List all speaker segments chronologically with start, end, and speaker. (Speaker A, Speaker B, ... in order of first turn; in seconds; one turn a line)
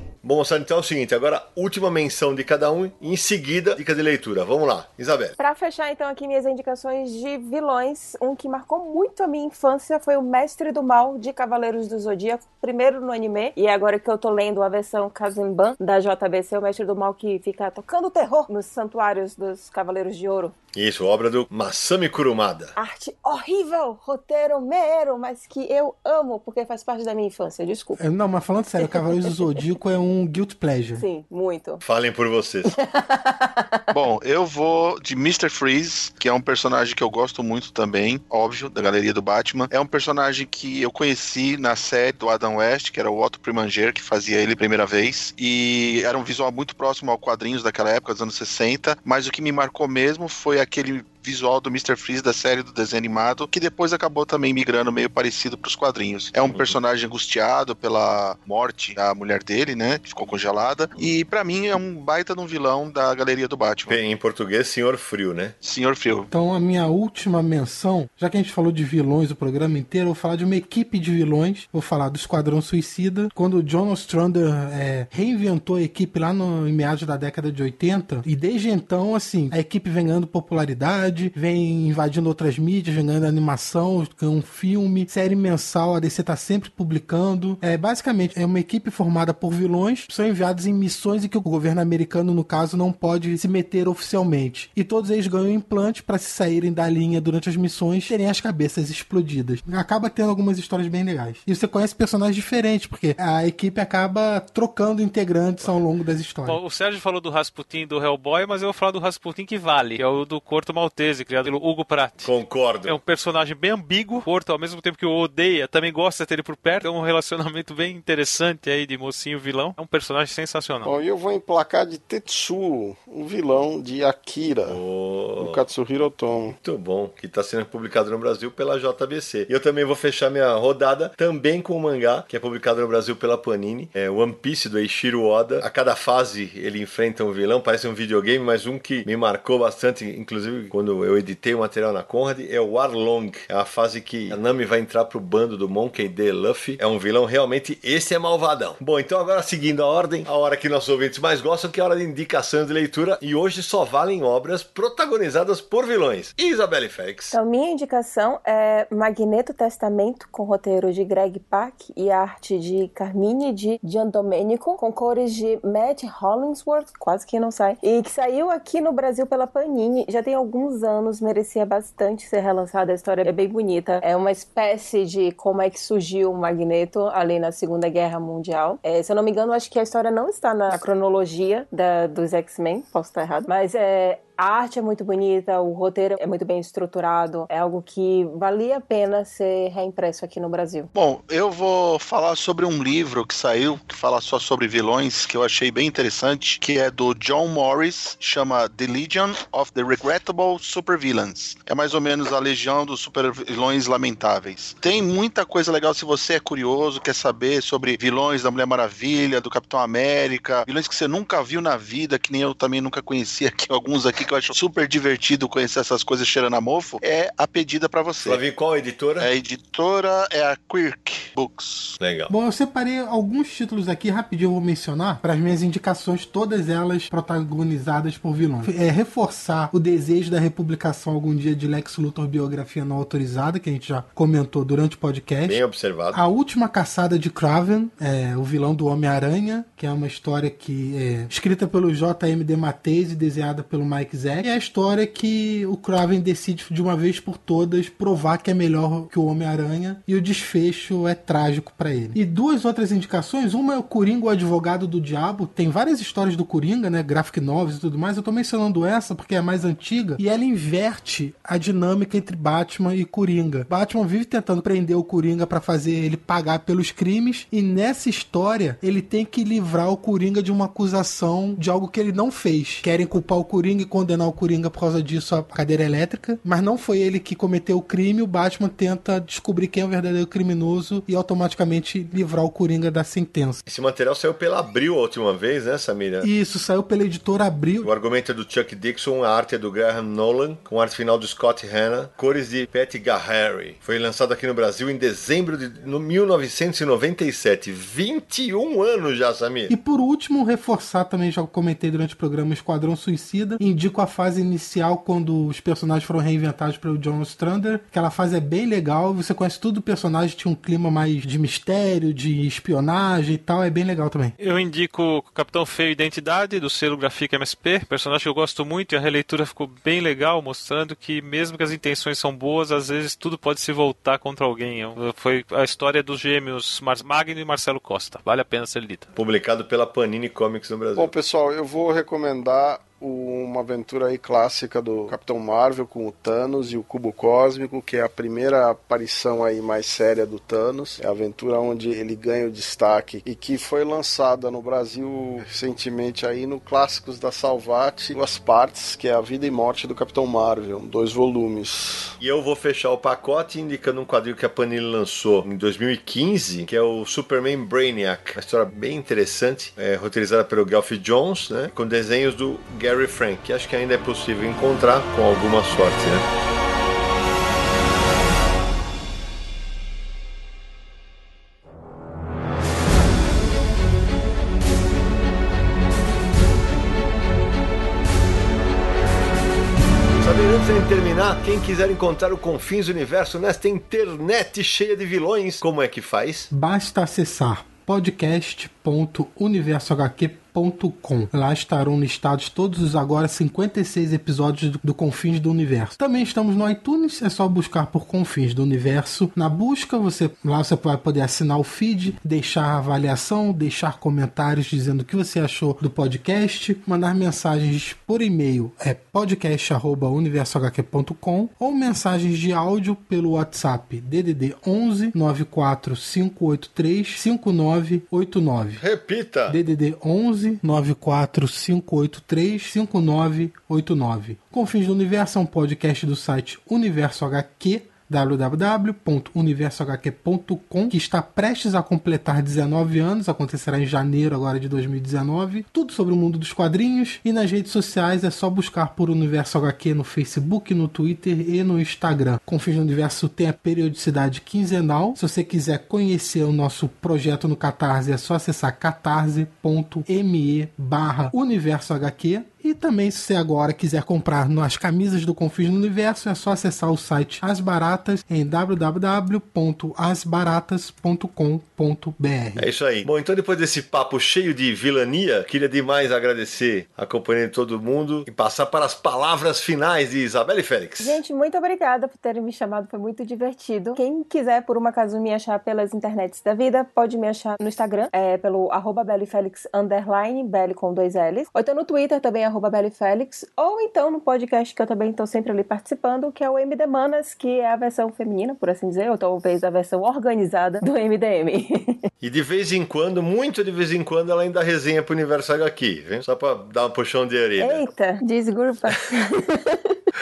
Speaker A: 0.2-5.3
Speaker B: 5.4-20.5
Speaker A: 20.7-22.8
Speaker B: 22.8-28.0
Speaker C: 28.0-31.1
Speaker B: 28.8-29.6
Speaker B: 31.0-31.8
Speaker A: 31.8-32.8
Speaker B: 32.7-33.9
Speaker D: 33.9-64.0
Speaker A: 56.5-56.8
Speaker A: 63.9-65.5
Speaker D: 65.6-66.3
Speaker C: 66.3-106.6
Speaker E: 106.5-112.3
Speaker A: 112.2-113.0
Speaker E: 112.8-121.0
Speaker F: 120.8-124.8
Speaker A: 124.7-125.6
Speaker F: 125.4-126.6
Speaker A: 126.6-157.3
Speaker B: 157.3-190.9
Speaker D: 190.9-218.4
Speaker A: 218.2-219.3
Speaker D: 219.2-222.0
Speaker A: 222.0-222.3
Speaker C: 222.3-235.6
Speaker A: 235.4-236.2
Speaker C: 236.1-283.6
Speaker A: 283.7-286.3
Speaker C: 286.2-287.9
Speaker A: 287.8-299.7
Speaker C: 299.7-314.4
Speaker E: 314.4-329.1
Speaker A: 329.2-331.1
Speaker F: 331.0-352.2
Speaker A: 352.2-366.3
Speaker A: 380.2-386.5
Speaker C: 386.5-418.8
Speaker A: 418.8-419.6
Speaker C: 419.5-462.7
Speaker A: 462.6-471.2
Speaker B: 471.0-492.1
Speaker A: 492.2-497.9
Speaker B: 497.6-500.0